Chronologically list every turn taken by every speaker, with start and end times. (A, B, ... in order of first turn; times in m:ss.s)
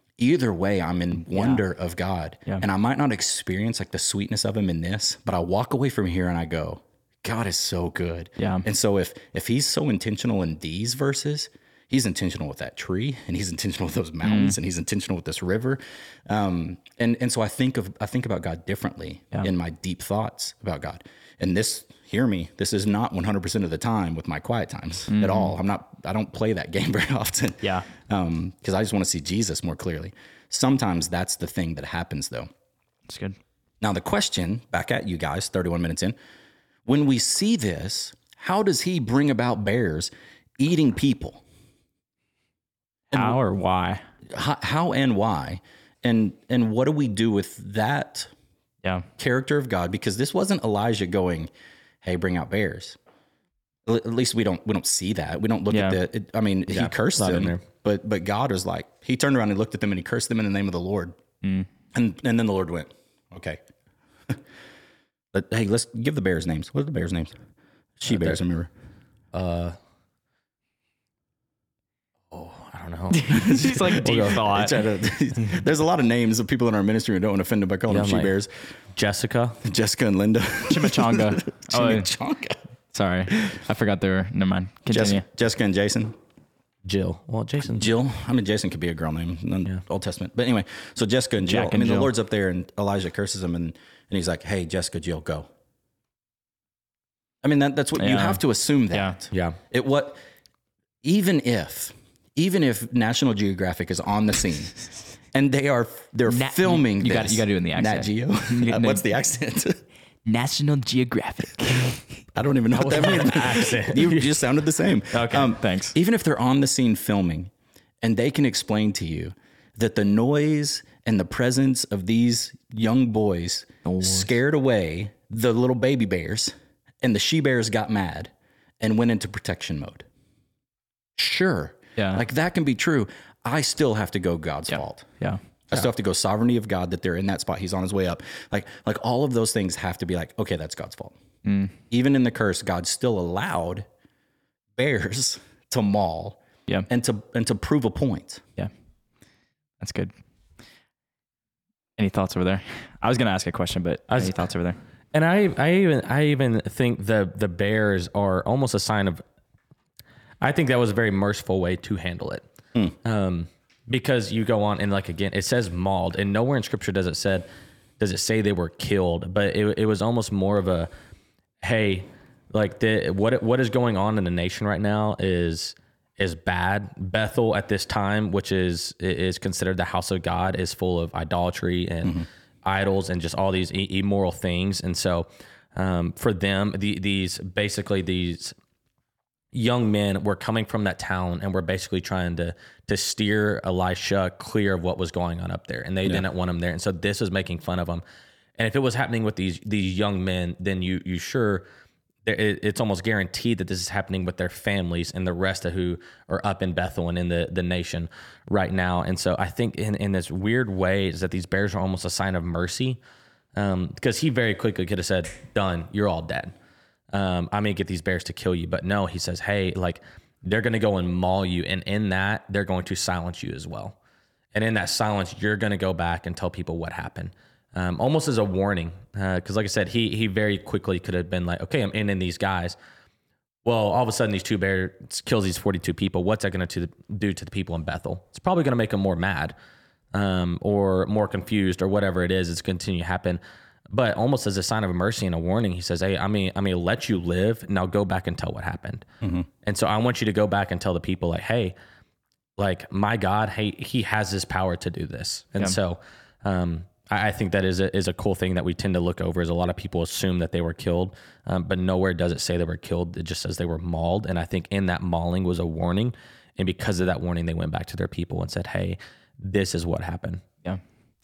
0:00.2-0:32.5 A
0:01.3-0:01.6 B
0:08.4-0:08.6 B
0:14.2-0:14.6 B
0:25.1-0:25.5 B
0:33.1-0:33.4 B
0:33.8-0:36.2 A
0:36.8-0:41.4 A
0:43.1-0:44.0 B
0:43.1-0:43.4 A
0:44.3-0:48.3 A
0:49.2-0:51.5 A
0:52.0-0:53.0 A
0:53.8-1:01.2 A
0:55.7-0:56.0 B
0:56.7-0:57.6 C
1:01.9-1:03.6 A
1:05.3-1:07.3 A
1:08.0-1:08.7 A
1:08.1-1:08.4 C
1:09.3-1:09.8 C
1:12.3-1:14.5 C
1:13.1-1:14.8 B
1:13.5-1:18.5 A
1:17.9-1:18.3 C
1:18.9-1:19.6 C
1:19.6-1:22.6 A
1:20.7-1:22.1 B
1:22.9-1:25.2 B
1:24.9-1:26.2 A
1:26.8-1:27.9 C
1:27.7-1:35.5 A
1:31.4-1:32.1 B
1:37.4-1:40.2 A
1:38.0-1:38.4 B
1:38.9-1:39.2 B
1:39.3-1:39.6 C
1:41.0-1:44.8 A
1:45.3-1:49.8 A
1:46.3-1:49.0 B
1:50.2-1:52.0 B
1:52.3-1:57.5 A
1:52.7-1:54.3 C
1:55.1-1:56.0 B
1:58.0-2:10.0 A
2:03.8-2:04.3 B
2:11.2-2:15.1 A
2:12.0-2:12.2 B
2:15.2-2:15.8 B
2:15.7-2:21.2 A
2:21.4-2:21.7 B
2:21.9-2:23.8 A
2:24.8-2:28.4 A
2:29.8-2:30.1 B
2:32.0-2:34.8 B
2:34.1-2:34.4 C
2:35.1-2:39.2 C
2:40.4-2:42.5 C
2:43.0-2:47.5 C
2:48.0-2:50.9 C
2:51.6-3:08.5 C
3:09.5-3:18.0 C
3:18.6-3:21.6 C
3:22.2-3:33.0 C
3:33.5-3:36.5 C
3:37.1-3:44.0 C
3:44.5-3:52.8 C
3:53.6-3:59.5 C
4:00.1-4:09.1 C
4:09.6-4:11.7 C
4:12.6-4:30.4 C